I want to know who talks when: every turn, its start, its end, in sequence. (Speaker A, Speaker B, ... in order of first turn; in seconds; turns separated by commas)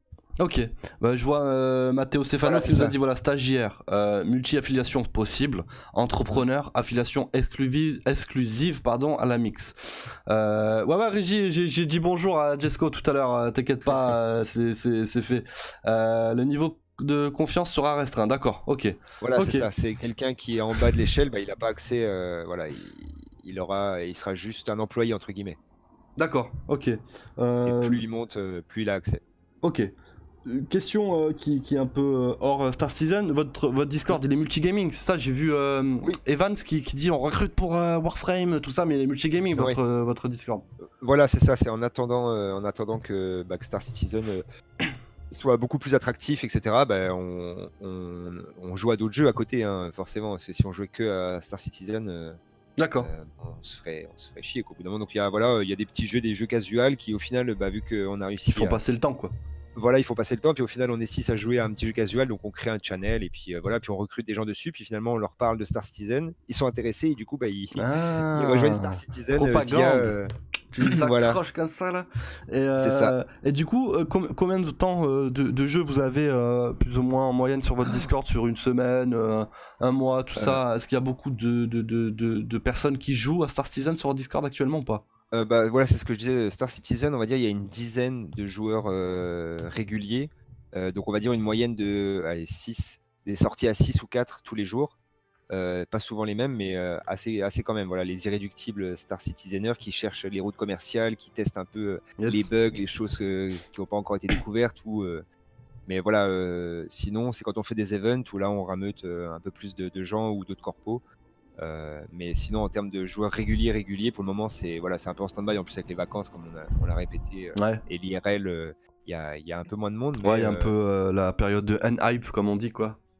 Speaker A: 0.4-19.7, Speaker B: 2.4-2.9, Speaker B: 19.2-25.6, Speaker A: 26.2-28.0, Speaker B: 27.6-29.2, Speaker A: 29.6-29.9, Speaker A: 30.4-40.6, Speaker B: 41.0-44.5, Speaker B: 45.3-52.4, Speaker A: 52.8-53.1, Speaker B: 53.0-58.8, Speaker A: 58.5-59.3, Speaker B: 59.8-67.8, Speaker A: 67.7-70.1, Speaker B: 68.3-71.4, Speaker A: 70.7-85.0, Speaker B: 72.8-73.2, Speaker B: 80.4-80.6, Speaker B: 85.3-95.0, Speaker B: 95.5-105.2, Speaker A: 102.2-102.5, Speaker B: 105.9-111.0, Speaker B: 111.6-120.7, Speaker A: 117.5-117.8, Speaker A: 120.2-123.0